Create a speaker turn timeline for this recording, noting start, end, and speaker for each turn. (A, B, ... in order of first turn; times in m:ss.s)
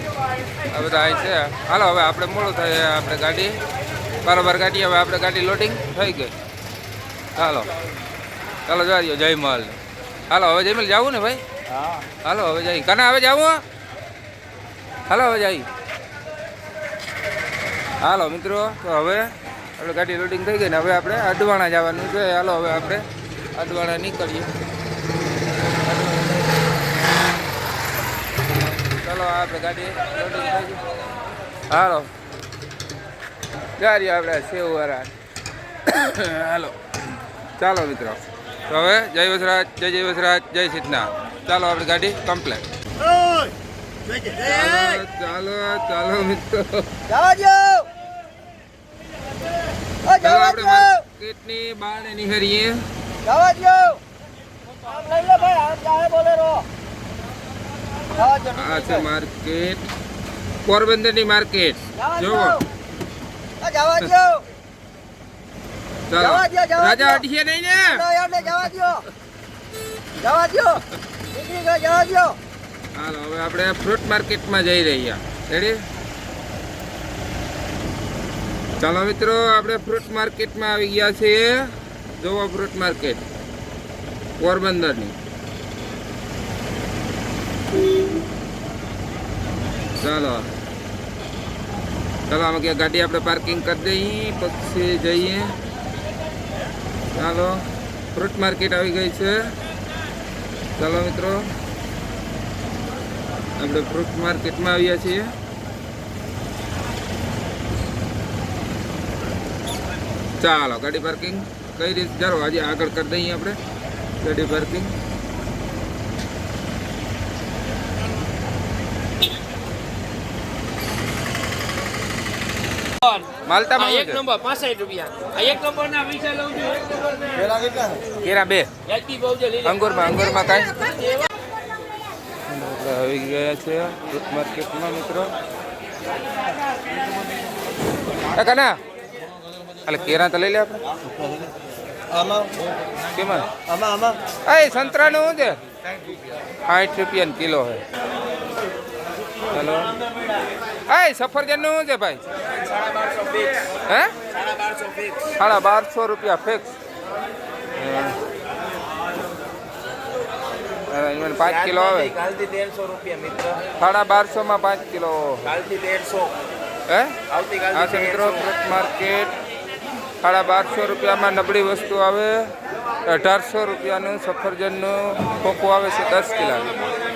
0:00.7-0:03.6 A
0:04.2-0:06.3 A
0:07.4-0:07.7 A
0:08.7-0:11.4 A
0:12.1-0:13.6 A
0:15.1-0:15.7 A
0:18.0-0:23.0 A
0:23.6-0:24.5 A
0:28.9-0:30.8 A
0:31.7-0:32.1 A
0:33.8-0:35.1 A
0:35.9-0:36.8 A
0:37.6-0:42.6 A
0:44.3-0:47.0 A
0:47.1-0:47.9 B
0:50.1-0:50.9 B
0:50.2-0:52.8 A
0:53.2-0:54.0 B
0:54.8-0:56.7 B
0:58.2-0:59.0 B
0:58.4-0:59.8 A
1:00.6-1:02.6 A
1:02.0-1:02.6 B
1:03.6-1:04.4 B
1:06.1-1:08.9 A
1:06.2-1:07.2 B
1:08.0-1:09.0 B
1:10.2-1:12.4 B
1:13.0-1:15.8 A
1:18.8-1:23.2 A
1:24.4-1:25.2 A
1:30.0-1:30.5 A
1:32.3-1:35.6 A
1:37.2-1:39.4 A
1:40.8-1:41.5 A
1:43.6-1:45.3 A
1:50.4-1:53.6 A
1:54.2-1:54.9 A
2:03.4-2:04.3 A
2:03.8-2:07.9 C
2:08.2-2:08.8 A
2:08.9-2:09.7 C
2:09.6-2:10.9 A
2:12.5-2:15.3 A
2:18.3-2:18.8 A
2:19.9-2:20.8 A
2:23.1-2:23.5 A
2:24.4-2:25.6 A
2:26.7-2:27.8 A
2:29.5-2:29.9 A
2:30.9-2:32.2 A
2:32.7-2:33.6 C
2:33.9-2:34.1 A
2:34.3-2:35.3 C
2:35.4-2:36.7 A
2:37.8-2:38.2 A
2:40.9-2:42.1 A
2:41.7-2:43.6 C
2:43.8-2:45.6 A
2:45.6-2:46.3 C
2:46.9-2:49.3 A
2:47.3-2:47.7 C
2:50.2-2:52.4 A
2:53.1-2:56.8 A